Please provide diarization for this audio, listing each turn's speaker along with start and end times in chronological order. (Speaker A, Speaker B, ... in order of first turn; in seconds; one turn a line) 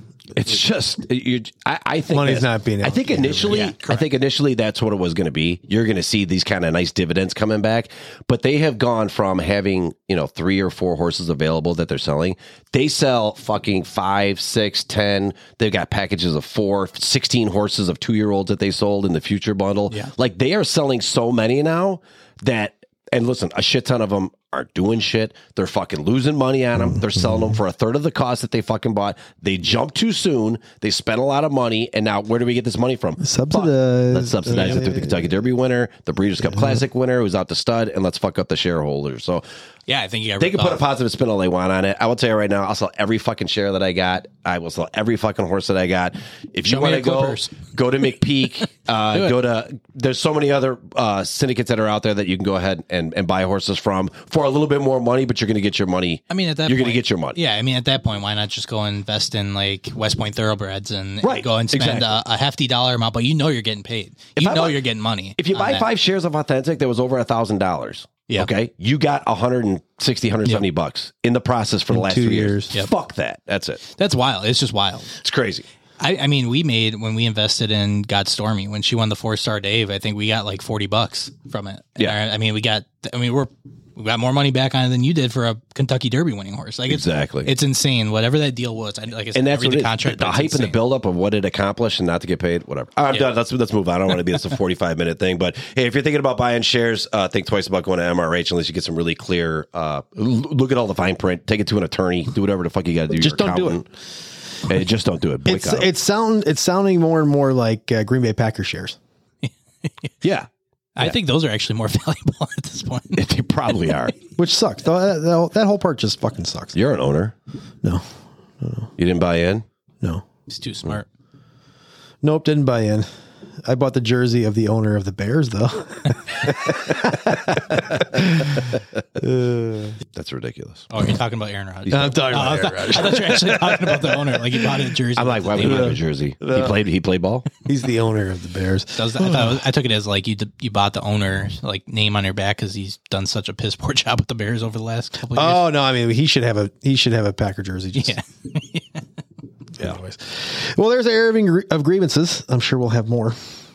Speaker A: 0.3-39.4
Speaker B: 2.1-3.7
Speaker C: 3.5-4.0
Speaker B: 33.2-35.2
Speaker C: 39.9-40.8
Speaker A: 40.4-57.4
Speaker C: 46.6-47.6
Speaker C: 56.3-65.9
Speaker A: 61.2-62.1
Speaker A: 64.4-64.8
Speaker A: 65.4-73.8
Speaker B: 71.9-72.7
Speaker C: 73.9-75.1
Speaker A: 75.2-75.6
Speaker C: 76.0-90.8
Speaker A: 86.9-87.5
Speaker A: 89.3-103.8
Speaker B: 103.1-103.8
Speaker A: 104.7-105.9
Speaker B: 105.5-109.0
Speaker C: 109.4-110.1
Speaker A: 110.2-110.5
Speaker C: 111.0-113.2
Speaker A: 113.2-114.1
Speaker B: 114.3-116.8
Speaker A: 116.7-117.3
Speaker B: 118.6-118.9
Speaker A: 119.0-119.6
Speaker C: 120.5-121.1
Speaker B: 122.2-123.1
Speaker B: 123.6-130.0
Speaker A: 130.1-130.9
Speaker C: 130.9-135.9
Speaker B: 131.9-134.4
Speaker A: 135.2-137.5
Speaker B: 135.6-136.8
Speaker B: 137.6-139.6
Speaker C: 138.9-145.6
Speaker B: 145.3-148.2
Speaker C: 147.9-149.0
Speaker B: 149.8-153.4